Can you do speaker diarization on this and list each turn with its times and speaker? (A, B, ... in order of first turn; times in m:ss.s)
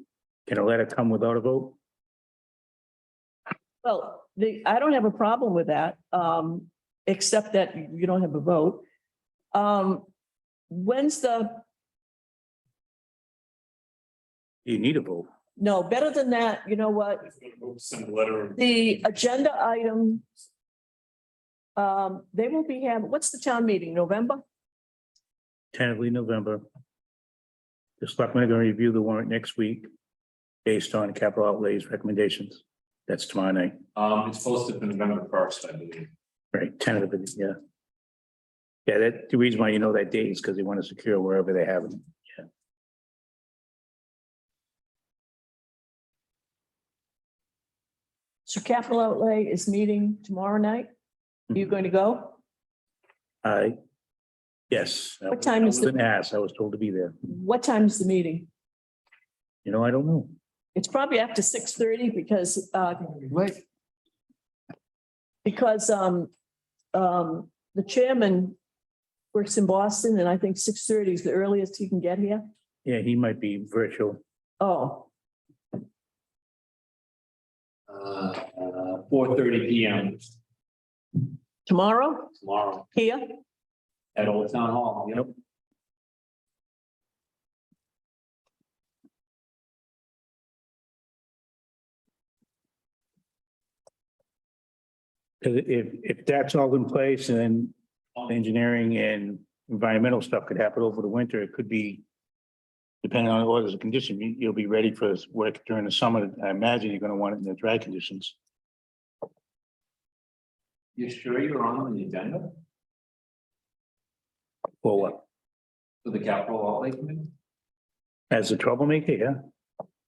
0:00.5-0:01.8 A
0:03.8-0:08.8 B
0:09.5-0:10.1 B
0:10.7-0:11.6 B
0:14.6-0:15.3 A
0:15.6-0:17.3 B
0:17.3-0:18.6 C
0:18.6-0:20.2 B
0:21.8-0:24.4 B
0:25.7-0:26.6 A
0:28.0-0:29.9 A
0:30.6-0:33.8 A
0:33.9-0:36.1 C
0:36.5-0:37.5 A
0:38.8-0:42.0 A
0:48.4-0:50.9 B
0:51.5-0:52.4 B
0:53.4-0:53.8 A
0:54.7-0:57.1 A
0:55.3-0:55.9 B
0:57.2-0:58.5 B
0:59.6-1:00.3 A
1:00.7-1:03.3 B
1:05.4-1:06.3 B
1:06.9-1:08.6 B
1:09.3-1:12.4 B
1:12.8-1:14.2 A
1:14.6-1:15.1 B
1:17.9-1:20.3 C
1:21.6-1:22.3 B
1:22.3-1:22.8 C
1:22.9-1:23.4 B
1:24.1-1:25.3 C
1:35.4-1:42.0 A
1:43.0-1:48.4 A
1:51.0-1:52.6 C
1:54.8-1:55.2 A
1:56.0-1:57.3 C
1:58.3-1:59.4 A